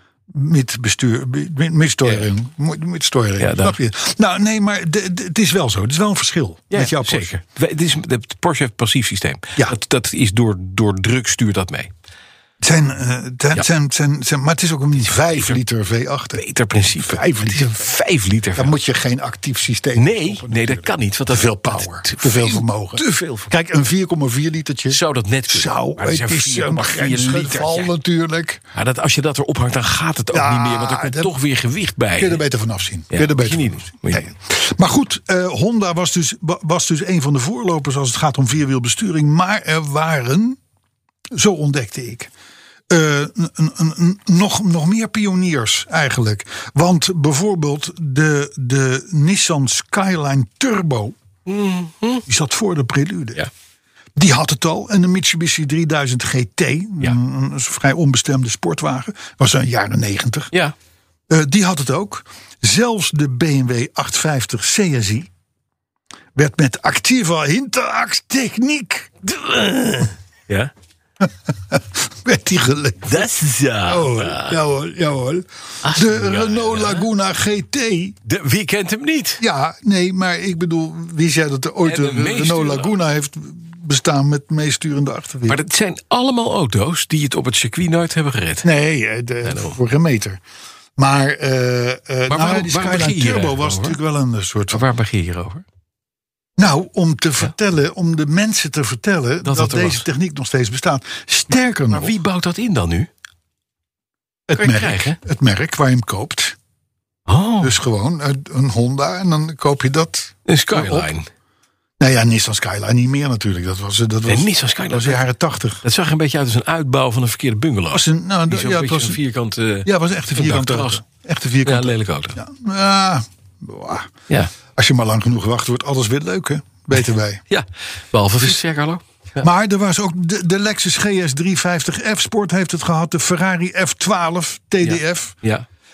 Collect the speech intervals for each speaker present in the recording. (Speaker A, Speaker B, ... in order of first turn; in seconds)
Speaker A: 0.3-7.3, 12.6-17.9, 18.6-28.6, 30.3-31.3, 32.2-40.6, 41.3-42.3, 42.9-51.2, 52.3-53.4, 54.2-60.5, 61.3-65.3, 66.3-70.1, 71.2-73.3, 73.8-78.2, 79.4-85.6, 88.6-90.4, 91.0-94.8, 96.6-102.2, 104.5-106.6, 107.6-111.1, 112.0-115.8, 117.9-119.2, 119.8-124.1, 124.8-127.4, 129.4-135.3
Speaker B: 3.4-3.8, 6.7-11.9, 15.0-15.6, 16.3-18.8, 20.0-23.5, 24.9-27.9, 28.7-32.4, 33.1-34.3, 51.5-52.2, 69.6-70.7, 73.0-74.6, 75.8-77.1, 78.2-79.4, 81.8-83.0, 85.5-88.7, 89.4-89.8, 92.3-94.0, 94.7-95.6, 99.4-100.0, 101.9-103.1, 104.6-105.2, 107.3-107.8, 110.5-111.3, 114.3-115.2, 115.8-121.0, 121.6-122.4, 127.5-129.5, 134.8-135.7